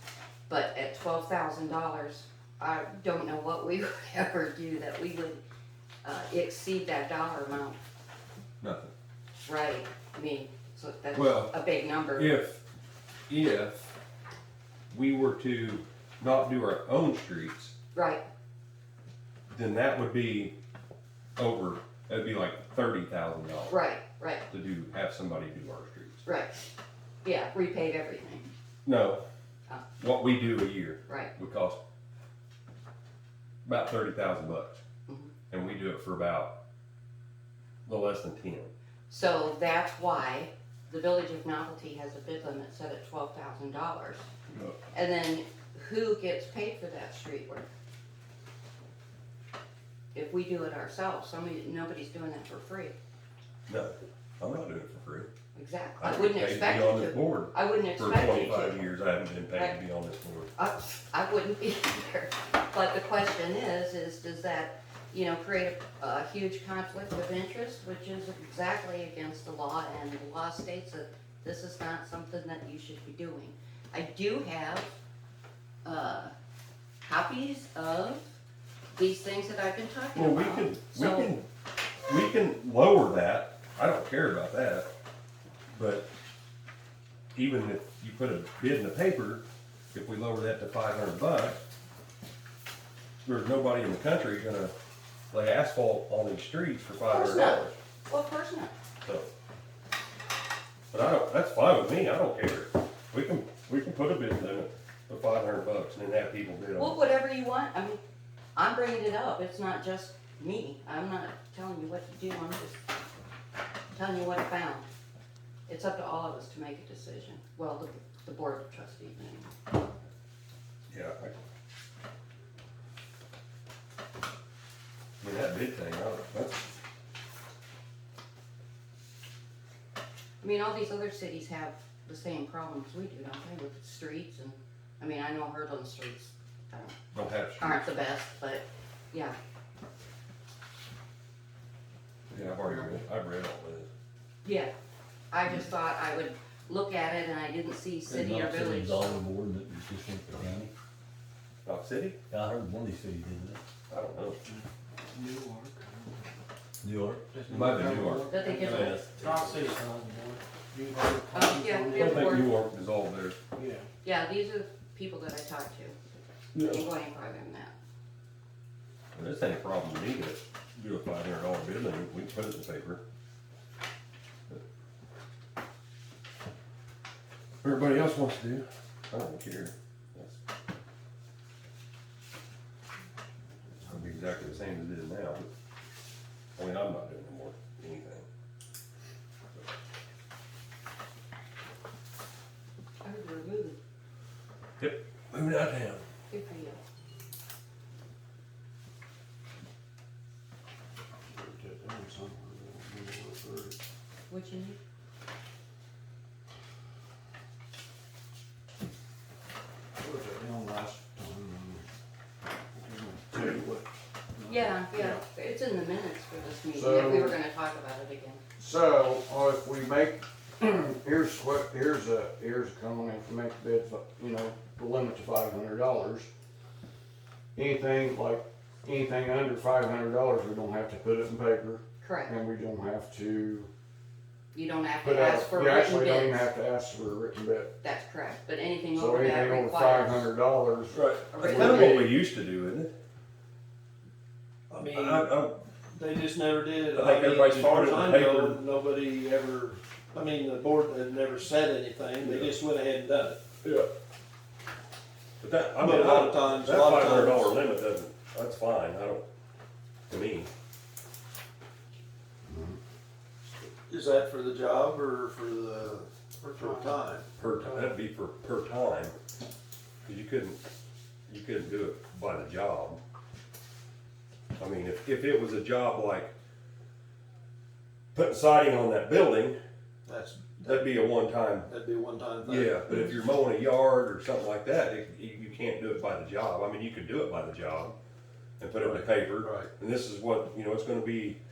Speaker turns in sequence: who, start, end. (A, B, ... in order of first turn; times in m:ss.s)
0:00.5-0:05.4 A
0:06.0-0:07.8 A
0:08.6-0:08.9 B
0:09.4-0:12.4 A
0:11.1-0:11.5 B
0:12.2-0:12.6 B
0:13.3-0:13.9 B
0:14.9-0:17.7 B
0:17.9-0:18.2 A
0:19.5-0:20.5 B
0:21.4-0:23.7 B
0:23.7-0:24.4 A
0:24.5-0:26.2 B
0:26.2-0:26.6 A
0:27.2-0:28.5 A
0:28.8-0:29.2 B
0:30.0-0:31.8 B
0:31.1-0:31.3 A
0:33.6-0:34.8 B
0:35.1-0:35.3 A
0:35.5-0:36.5 B
0:37.8-0:38.7 B
0:39.1-0:44.3 A
0:44.9-0:47.7 A
0:50.1-0:52.9 A
0:53.7-0:55.3 B
0:55.5-0:58.8 A
0:56.0-1:00.5 B
1:00.6-1:14.9 A
1:15.8-1:16.3 A
1:17.0-1:18.4 A
1:18.9-1:21.3 A
1:20.1-1:21.5 B
1:22.1-1:24.9 B
1:25.7-1:26.1 B
1:27.3-1:31.6 B
1:33.2-1:34.7 B
1:35.3-1:37.7 B
1:37.1-1:38.7 A
1:39.0-1:39.3 B
1:40.9-1:47.0 B
1:46.7-1:48.0 A
1:48.6-1:52.8 A
1:53.9-1:54.9 A
1:55.7-2:00.0 A
2:00.9-2:01.3 B
2:05.2-2:06.7 B
2:10.4-2:17.0 A
2:17.1-2:17.8 B
2:17.6-2:19.4 A
2:22.3-2:23.9 B
2:22.3-2:23.0 C
2:24.4-2:24.7 A
2:25.3-2:29.2 A
2:28.1-2:30.7 D
2:31.6-2:32.2 B
2:32.3-2:33.6 D
2:33.9-2:34.4 B
2:34.4-2:36.4 C
2:36.8-2:39.7 D
2:37.3-2:42.5 C
2:37.5-2:38.3 B
2:38.3-2:39.0 A
2:41.3-2:42.6 A
2:41.9-2:43.4 B
2:43.5-2:43.9 C
2:44.0-2:46.0 A
2:46.6-2:47.7 A
2:49.1-2:53.0 B
2:57.6-3:00.4 B
3:03.9-3:05.4 B
3:06.6-3:08.2 B
3:13.0-3:13.8 A
3:14.8-3:16.0 B
3:16.3-3:16.8 A
3:21.3-3:23.8 C
3:24.3-3:24.8 A
3:30.0-3:31.8 C
3:32.7-3:35.2 C
3:34.5-3:38.4 A
3:36.7-3:37.4 C
3:38.6-3:46.3 C
3:47.5-3:53.7 C
3:52.0-3:52.3 A
3:54.5-3:56.5 A
3:55.0-3:57.7 C
3:57.8-4:00.3 A
3:58.9-4:02.1 C
4:00.9-4:02.9 B
4:01.3-4:02.0 A
4:04.7-4:05.3 E
4:04.8-4:05.5 B
4:05.9-4:13.4 E
4:06.9-4:08.6 B
4:12.2-4:12.5 B
4:15.4-4:19.2 B
4:15.8-4:17.6 E
4:20.1-4:20.5 B
4:22.4-4:22.8 C
4:23.8-4:27.3 E
4:26.6-4:27.0 C
4:27.4-4:29.1 B
4:27.6-4:27.9 C
4:30.0-4:30.6 B
4:31.3-4:33.0 B
4:34.6-4:36.3 B
4:38.1-4:39.6 B
4:40.0-4:41.0 E
4:40.6-4:41.7 B
4:41.6-4:43.1 E
4:42.4-4:47.9 B
4:48.6-4:51.4 B
4:48.8-4:49.7 E